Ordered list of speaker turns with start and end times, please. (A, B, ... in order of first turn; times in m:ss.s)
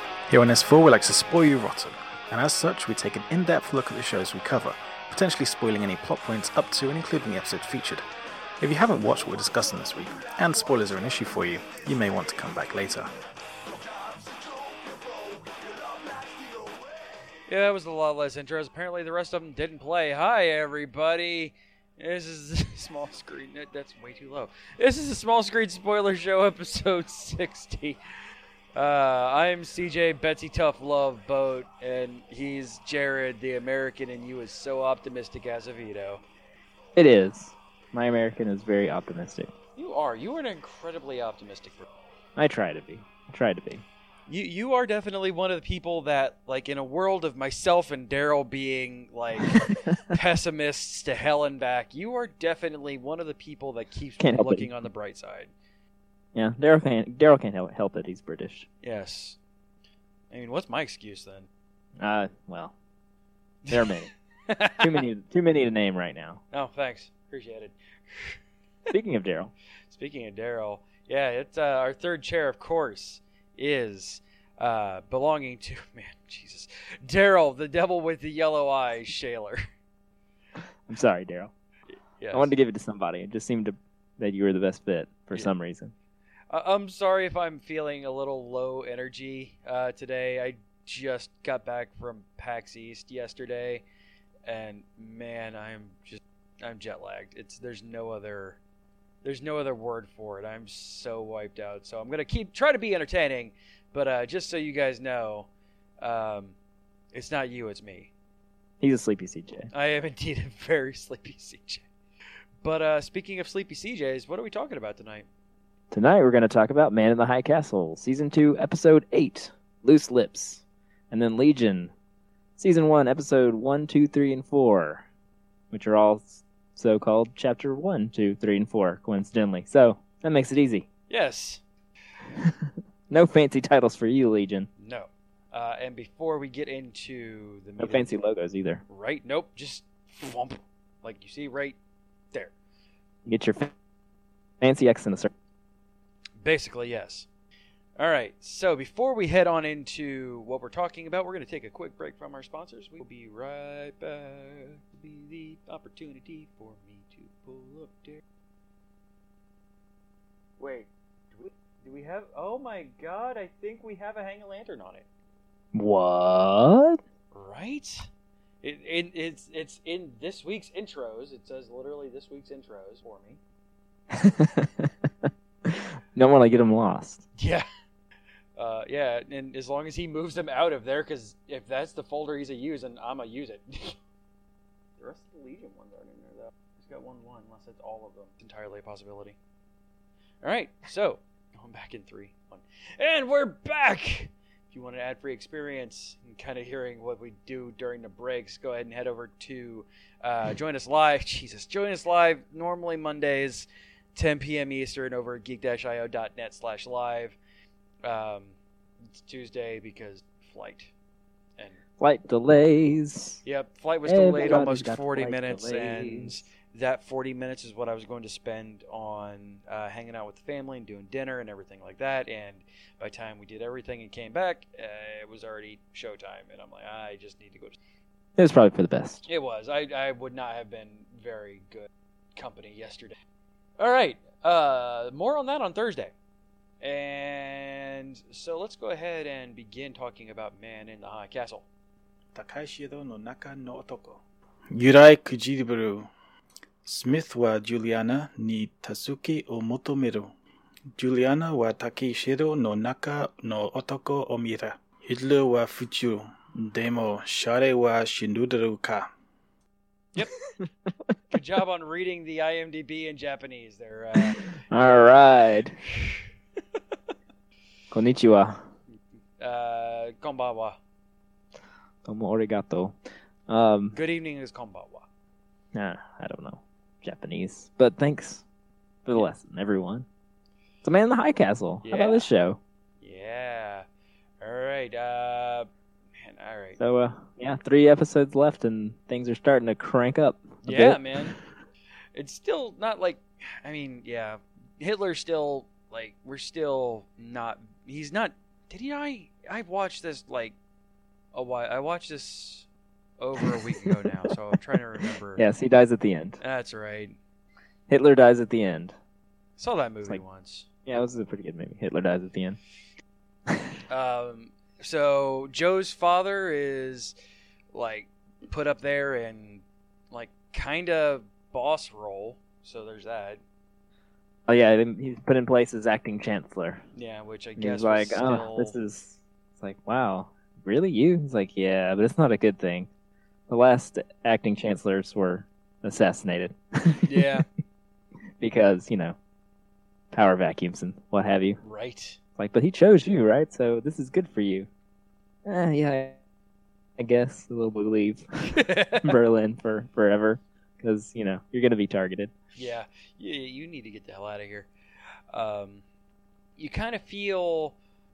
0:00.3-0:08.0 A
0:08.6-0:13.1 A
0:17.5-0:28.0 B
0:28.8-0:36.2 B
0:37.0-0:39.5 C
0:39.8-0:41.8 B
0:42.4-0:43.8 C
0:44.3-0:55.5 B
0:54.2-0:54.7 C
0:56.3-0:58.7 C
0:58.8-0:59.4 B
1:00.3-1:01.5 B
1:02.0-1:02.7 C
1:03.7-1:04.1 C
1:04.5-1:05.0 B
1:04.8-1:06.4 C
1:06.5-1:08.4 B
1:08.9-1:09.5 C
1:09.9-1:19.6 B
1:20.9-1:21.5 C
1:22.2-1:22.5 B
1:22.3-1:25.9 C
1:26.5-1:33.8 B
1:34.4-1:38.6 B
1:39.2-1:45.5 B
1:46.0-1:46.5 B
1:47.1-1:48.1 B
1:48.8-1:49.7 C
1:49.7-1:51.8 B
1:52.6-1:55.2 B
1:55.9-2:01.9 C
2:02.6-2:05.0 C
2:05.7-2:10.9 C
2:11.1-2:11.6 B
2:12.3-2:14.7 C
2:14.8-2:18.1 B
2:17.8-2:18.8 C
2:18.9-2:21.8 B
2:23.2-2:23.7 C
2:24.6-2:25.3 C
2:26.4-2:27.2 B
2:28.0-2:38.2 B
2:40.6-2:45.0 B
2:45.7-2:47.0 C
2:47.3-2:48.1 B
2:48.6-2:53.4 B
2:54.1-2:57.2 C
2:57.4-2:57.6 B
2:58.6-3:04.0 B
3:05.0-3:09.4 B
3:10.4-3:27.4 B
3:28.0-3:28.5 B
3:29.1-3:30.9 B
3:32.0-3:33.4 C
3:33.4-3:47.8 B
3:34.0-3:36.4 C
3:48.4-3:49.3 C
3:49.3-3:53.2 B
3:53.8-3:56.1 B
3:56.8-4:01.6 B
4:02.3-4:04.2 A
4:04.7-4:06.1 A
4:06.8-4:10.3 A
4:11.0-4:19.1 A
4:20.6-4:21.1 C
4:21.3-4:25.2 B
4:24.2-4:25.8 C
4:27.9-4:28.6 C
4:29.4-4:30.8 B
4:32.0-4:34.0 C
4:33.9-4:35.1 B
4:35.7-4:38.4 C
4:39.0-4:40.0 C
4:40.8-4:42.6 C
4:41.8-4:42.3 B
4:43.0-4:43.8 B
4:44.4-4:45.7 B
4:46.2-4:46.8 B
4:46.8-4:51.4 C
4:50.6-4:51.4 B
4:52.1-5:00.5 B
5:01.3-5:02.6 B
5:03.2-5:05.4 B
5:03.4-5:04.1 C
5:05.4-5:06.4 C
5:06.4-5:07.2 B
5:07.9-5:09.0 C
5:09.6-5:10.6 B
5:10.8-5:12.6 C
5:13.5-5:13.8 C
5:13.9-5:17.1 B
5:17.7-5:23.4 B
5:24.5-5:26.8 C
5:26.9-5:28.8 B
5:27.6-5:32.9 C
5:33.5-5:37.4 C
5:37.0-5:37.4 B
5:38.4-5:39.2 C
5:40.1-5:41.6 C
5:41.6-5:42.2 B
5:42.4-5:44.7 C
5:45.4-5:46.2 C
5:47.0-5:48.2 C
5:48.5-5:49.2 B
5:49.0-5:52.3 C
5:52.6-5:54.7 B
5:55.3-5:55.8 B
5:56.6-5:57.7 B